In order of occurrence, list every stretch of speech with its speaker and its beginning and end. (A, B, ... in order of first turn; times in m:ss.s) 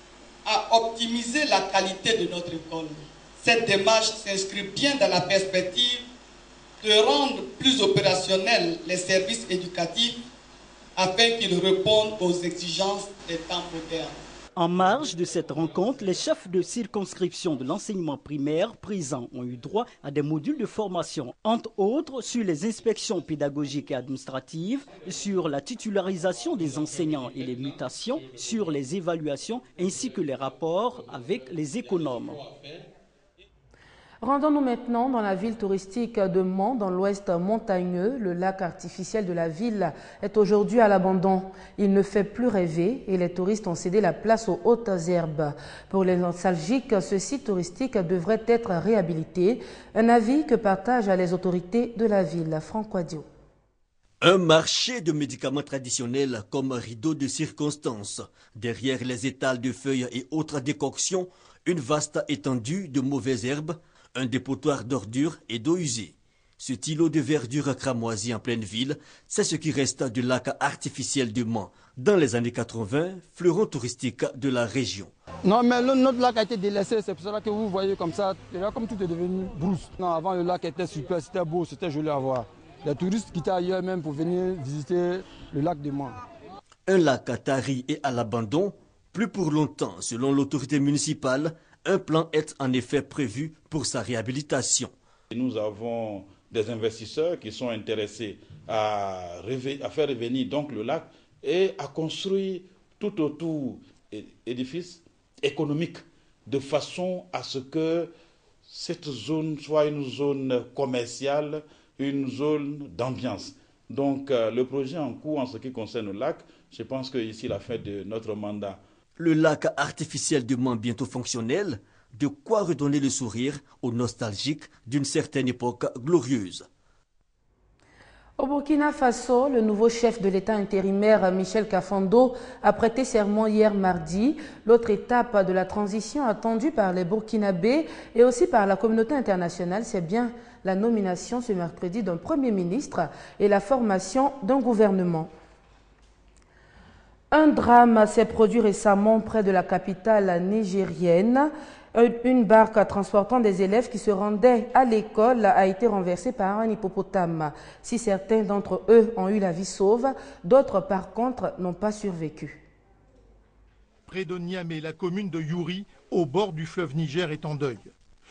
0:00.4-0:06.1 A
0:06.8-0:10.2 A
0:11.0-0:14.2 A
0:14.6-0:32.4 B
0:34.2-0:53.2 C
0:54.2-1:15.1 D
1:15.4-1:26.2 E
1:26.9-1:34.9 D
1:39.4-1:40.8 F
1:41.4-1:42.4 F
1:43.0-1:48.1 F
1:48.7-1:58.8 F
1:59.2-2:06.6 D
2:08.4-2:25.3 C
2:27.3-2:42.6 C
2:44.1-2:47.9 G